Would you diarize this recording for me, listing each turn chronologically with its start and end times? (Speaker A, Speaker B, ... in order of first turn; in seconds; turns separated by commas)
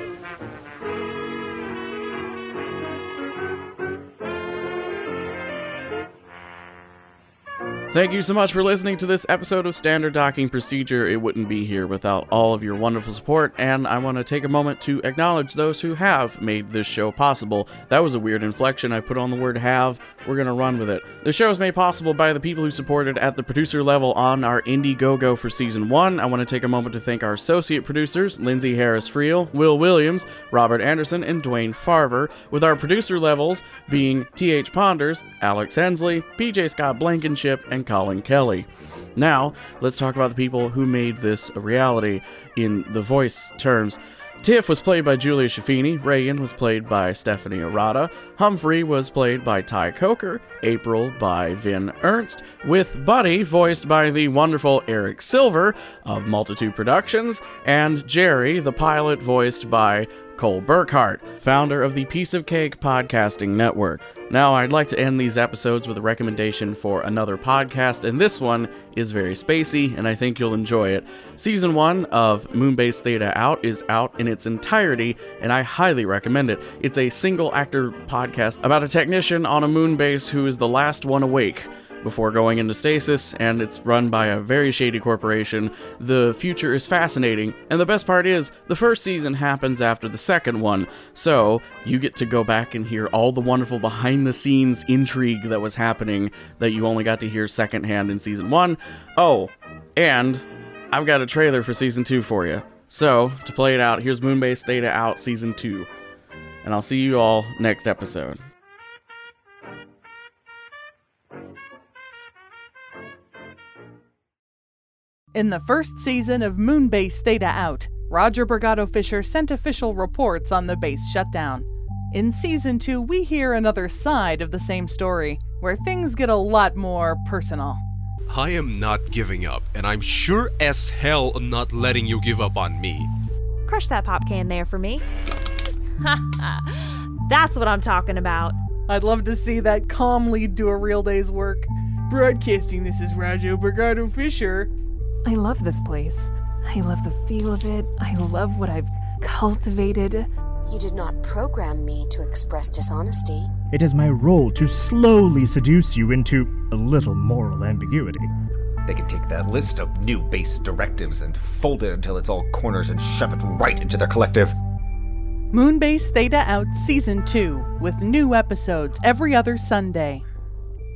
Speaker A: 7.9-105.9, Speaker A: 106.6-108.4, Speaker B: 115.3-127.8, Speaker C: 128.3-133.1, Speaker D: 133.7-135.0, Speaker D: 136.0-138.6, Speaker B: 138.9-144.7, Speaker E: 145.2-150.3, Speaker F: 150.7-153.5, Speaker G: 153.7-158.3, Speaker H: 158.9-164.5, Speaker B: 165.5-170.2